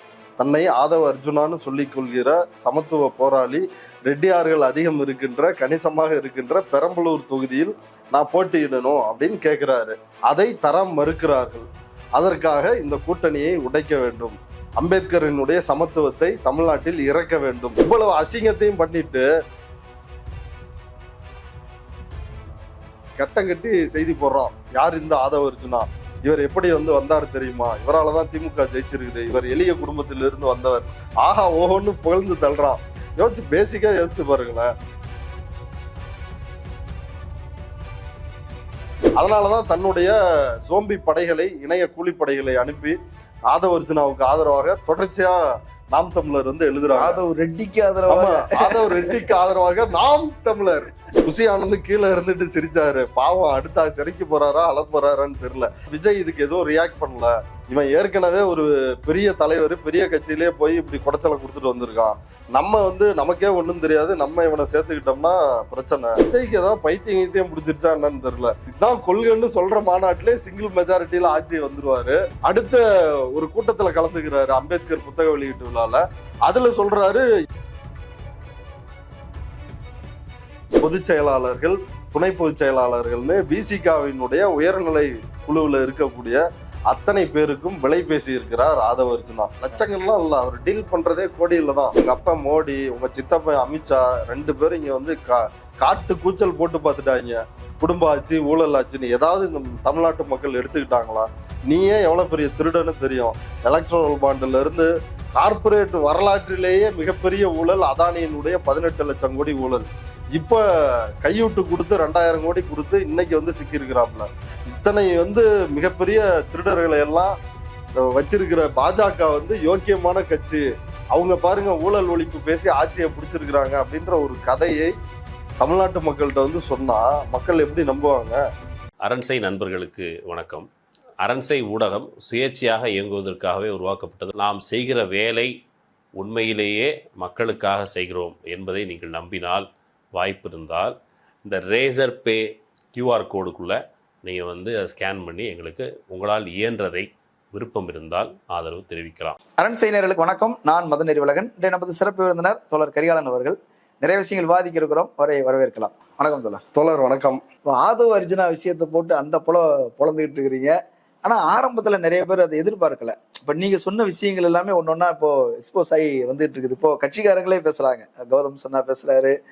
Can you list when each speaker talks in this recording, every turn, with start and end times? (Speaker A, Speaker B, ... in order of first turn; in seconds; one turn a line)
Speaker A: 0.4-19.3
Speaker A: 23.2-34.7
Speaker A: 39.2-43.0
Speaker A: 43.5-45.4
Speaker A: 45.9-47.2
Speaker B: 47.0-49.3
Speaker A: 48.1-77.2
Speaker A: 80.8-110.6
Speaker A: 111.2-117.3
Speaker A: 118.0-124.9
Speaker A: 125.6-128.4
Speaker C: 129.0-130.7
Speaker C: 131.2-135.5
Speaker C: 136.2-149.3
Speaker B: 149.6-156.6
Speaker A: 156.7-157.4
Speaker B: 157.7-169.3